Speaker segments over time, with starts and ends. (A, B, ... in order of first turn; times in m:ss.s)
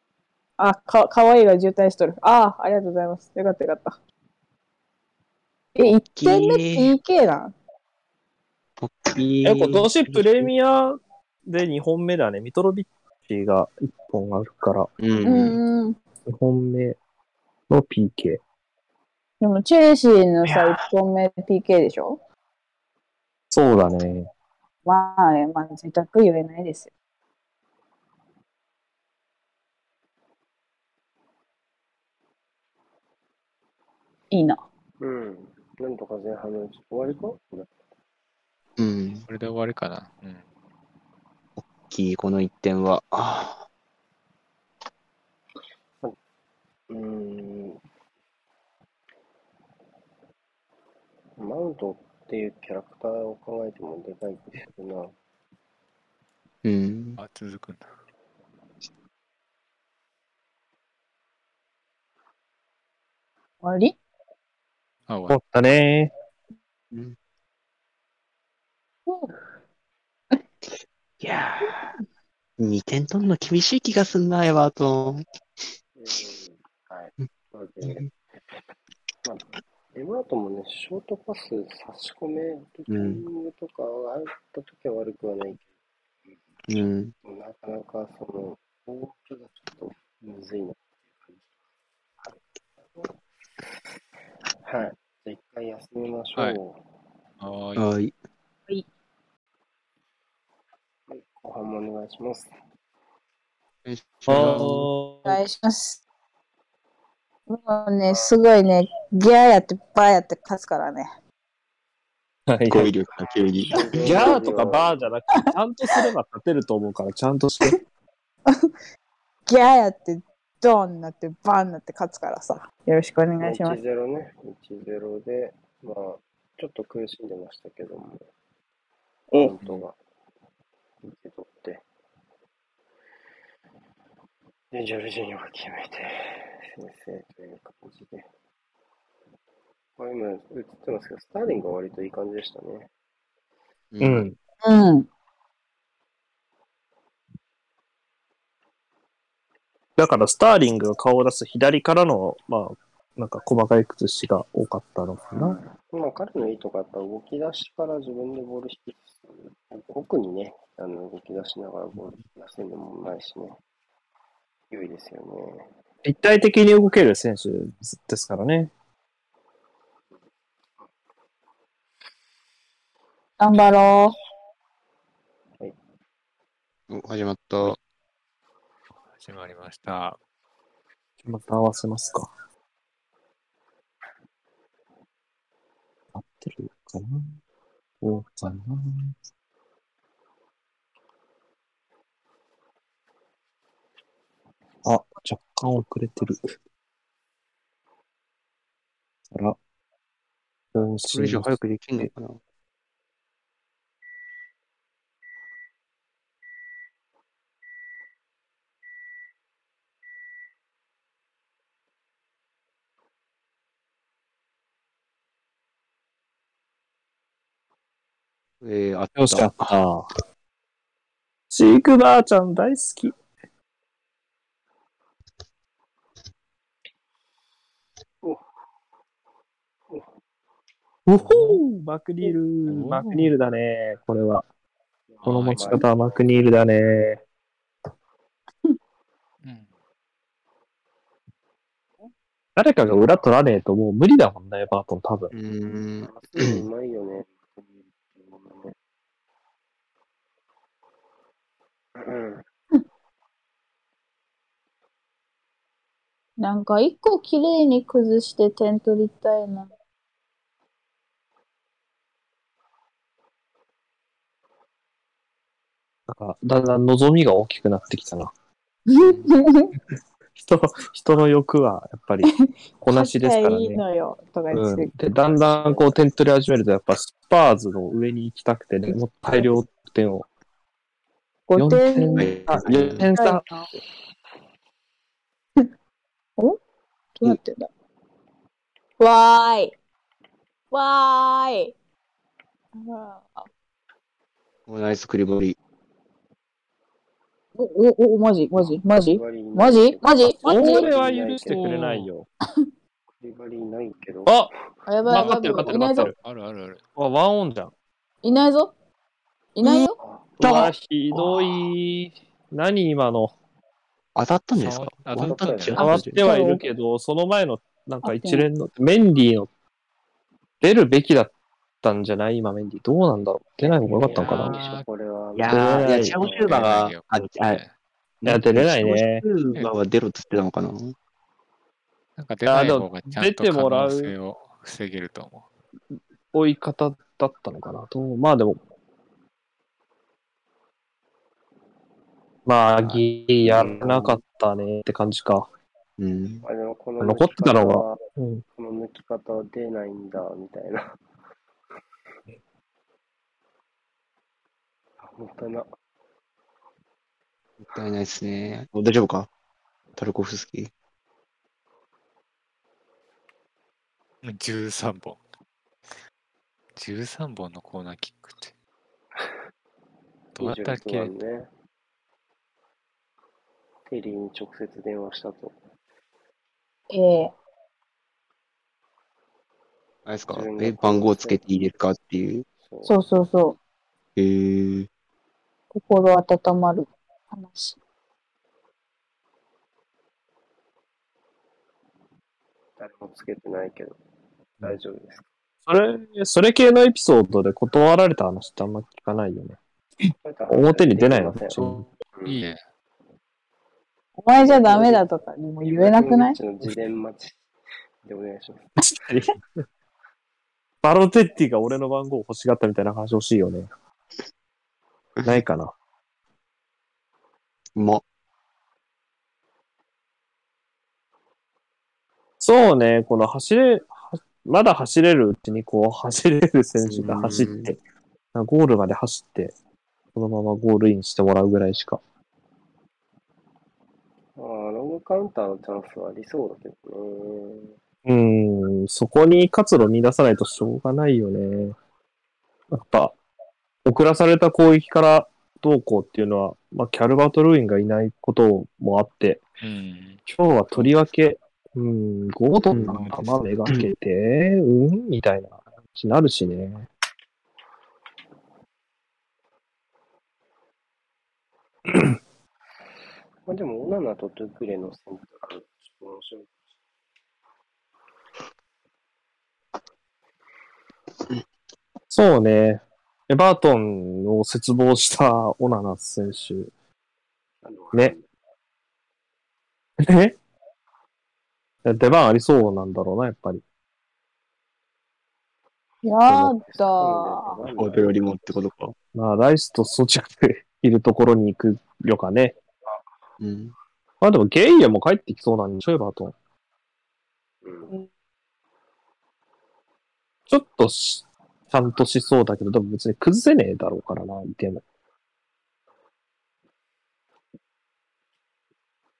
0:00.6-0:04.0 A
0:05.7-0:07.5 A
0:05.8-0:06.9 B
0:08.8-0:10.5 B
0:09.4-0:14.9 C
0:15.0-0:15.6 B
0:15.2-0:16.0 A
0:16.2-0:17.0 C
0:17.7-0:18.4 C
0:19.4-0:22.2 A
0:20.4-0:20.8 B
0:23.5-0:24.3 C
0:24.8-0:26.9 A
0:34.3-0:34.6 A
0:35.0-0:37.7 D
0:38.8-0:39.2 B
0:39.3-0:40.4 E
0:41.6-0:43.6 B
0:46.9-0:47.8 D
0:51.4-0:55.1 D
0:56.6-0:57.2 B
0:57.2-0:57.9 E
1:03.6-1:04.0 A
1:05.1-1:05.4 E
1:05.3-1:06.1 C
1:09.1-1:09.3 A
1:11.2-1:11.9 B
1:12.6-1:15.2 B
1:15.9-1:18.1 D
1:17.8-1:18.1 B
1:19.2-1:25.7 D
1:22.9-1:23.2 B
1:26.7-1:27.1 B
1:27.2-1:31.4 D
1:34.6-1:36.8 D
1:37.4-1:37.8 E
1:37.8-1:38.1 B
1:41.1-1:42.5 D
1:43.8-1:44.9 B
1:44.3-1:45.4 C
1:45.2-1:46.0 A
1:47.5-1:51.1 A
1:52.5-1:52.9 C
1:52.7-1:54.3 B
1:53.7-1:55.1 D
1:54.0-1:57.8 C
1:55.4-1:56.0 A
1:59.5-2:03.8 A
2:03.4-2:08.2 D
2:09.3-2:10.0 D
2:09.6-2:09.8 E
2:11.0-2:11.8 D
2:14.7-2:18.3 D
2:20.0-2:22.9 D
2:23.9-2:24.2 B
2:24.0-2:24.4 C
2:24.6-2:25.1 A
2:30.0-2:35.6 C
2:35.3-2:43.6 D
2:44.7-2:45.7 D
2:46.0-2:48.7 C
2:53.4-2:54.2 A
2:56.9-2:57.8 B
2:59.1-3:00.2 E
3:01.2-3:02.3 C
3:06.1-3:07.4 C
3:08.0-3:09.2 C
3:14.8-3:16.4 C
3:19.3-3:19.6 C
3:20.7-3:21.6 C
3:21.1-3:22.4 B
3:38.6-3:39.7 B
3:39.2-3:40.1 C
3:41.5-3:43.2 C
3:51.0-3:54.4 C
3:52.7-3:53.3 E
3:55.1-3:56.2 D
3:55.2-3:55.8 E
3:55.2-3:57.2 C
3:59.4-3:59.7 E
4:02.6-4:05.3 C
4:05.3-4:06.6 B
4:06.0-4:08.7 D
4:12.0-4:12.4 D
4:16.4-4:19.7 A
4:26.1-4:28.3 C
4:28.9-4:29.7 A
4:29.0-4:29.3 B
4:30.4-4:33.8 C
4:32.2-4:34.9 A
4:34.5-4:40.2 C
4:35.3-4:35.9 D
4:41.5-4:42.4 A
4:41.6-4:43.4 C
4:42.2-4:43.1 B
4:43.0-4:43.7 A
4:47.2-4:47.7 A
4:49.0-4:49.7 A
4:50.7-4:51.7 A
4:52.8-4:53.5 A
4:54.7-4:55.6 B
4:57.6-5:00.9 A
4:58.9-5:01.8 D
5:00.4-5:02.3 C
5:01.5-5:02.1 E
5:03.2-5:04.5 D
5:04.2-5:04.5 C
5:04.8-5:06.1 A
5:05.0-5:06.1 C
5:06.2-5:06.8 E
5:07.0-5:07.7 C
5:08.2-5:08.7 A
5:09.5-5:10.0 A
5:09.6-5:09.9 B
5:10.0-5:10.4 D
5:10.4-5:11.3 B
5:10.4-5:13.3 C
5:14.1-5:16.2 B
5:14.5-5:15.8 E
5:15.2-5:15.8 D
5:15.8-5:16.6 A
5:15.8-5:19.5 C
5:18.0-5:18.5 A
5:20.6-5:24.6 C
5:23.6-5:26.6 D
5:24.1-5:24.8 E
5:25.4-5:27.6 B
5:25.5-5:26.2 C
5:26.2-5:27.7 E
5:28.2-5:30.9 B
5:28.2-5:29.2 C
5:32.2-5:35.4 E
5:32.4-5:34.1 C
5:36.3-5:38.6 C
5:42.4-5:45.5 C
5:43.7-5:44.1 D
5:46.0-5:46.4 B
5:46.4-5:48.0 D
5:47.0-5:48.4 C
5:48.6-5:50.8 D
5:55.0-5:55.6 D
5:57.6-5:59.3 B
6:00.0-6:00.7 B
6:04.2-6:05.2 E
6:06.8-6:08.5 E
6:10.4-6:11.1 E
6:10.4-6:11.5 D
6:13.9-6:15.6 D
6:16.9-6:17.3 A
6:20.0-6:22.4 B
6:20.3-6:21.4 D
6:22.6-6:22.9 D
6:22.8-6:23.6 A
6:24.2-6:24.9 B
6:25.7-6:27.8 A
6:32.8-6:34.0 D
6:34.6-6:35.2 D
6:35.6-6:39.6 C
6:40.2-6:42.4 D
6:40.5-6:41.9 C
6:42.2-6:42.6 E
6:44.2-6:46.4 A
6:44.3-6:45.0 D
6:45.6-6:47.4 D
6:48.0-6:49.1 D
6:48.8-6:49.4 C
6:50.8-6:53.7 C
6:55.2-6:55.7 C
6:57.8-6:58.0 B
7:02.4-7:07.8 C
7:06.8-7:07.7 B
7:08.3-7:09.5 C
7:10.1-7:12.0 C
7:14.4-7:17.7 D
7:18.0-7:21.8 C
7:22.7-7:23.2 C
7:23.8-7:29.4 C
7:29.6-7:30.2 E
7:30.3-7:36.9 C
7:32.8-7:33.4 E
7:43.5-7:46.5 D
7:52.1-7:56.7 C
7:57.6-7:58.2 D
8:00.0-8:00.4 C
8:01.8-8:03.6 C
8:06.0-8:07.6 A
8:06.6-8:08.2 D
8:07.7-8:08.9 B
8:09.1-8:12.6 C
8:13.4-8:13.7 B
8:14.2-8:16.4 C
8:17.6-8:17.9 D
8:20.5-8:24.8 C